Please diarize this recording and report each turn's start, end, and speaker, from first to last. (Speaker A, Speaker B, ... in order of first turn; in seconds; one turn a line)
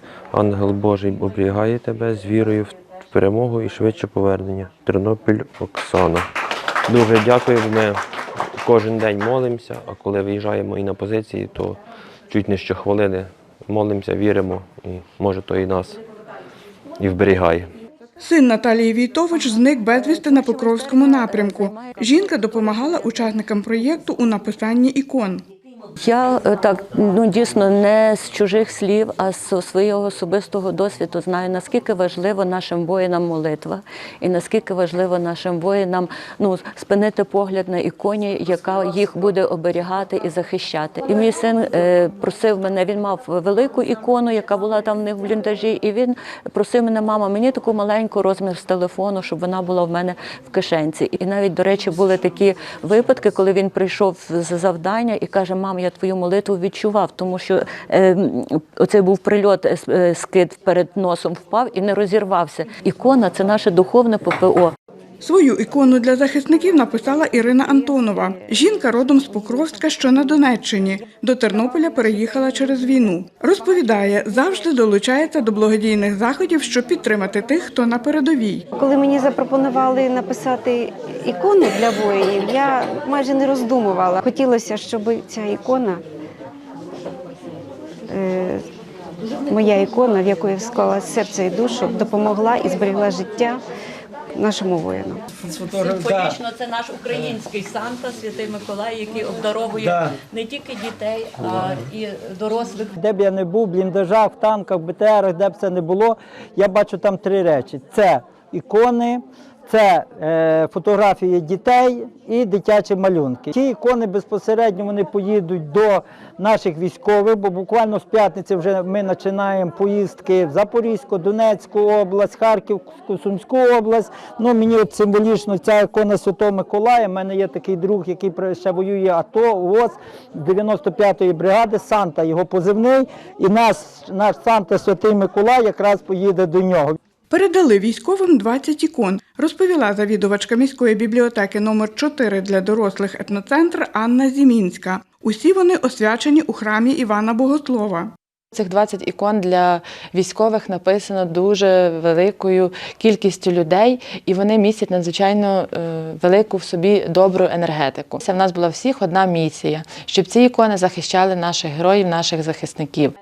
Speaker A: 0.3-6.3
Speaker A: 6.9-8.0
Speaker A: 8.6-16.0
Speaker A: 17.0-17.7
Speaker B: 18.2-25.4
Speaker C: 20.2-22.3
Speaker C: 26.0-64.7
Speaker B: 65.2-78.7
Speaker D: 78.8-86.0
Speaker D: 88.1-88.6
Speaker D: 89.5-93.6
Speaker D: 94.3-95.2
Speaker C: 95.6-103.0
Speaker E: 103.0-137.0
Speaker B: 137.3-148.1
Speaker F: 148.5-163.1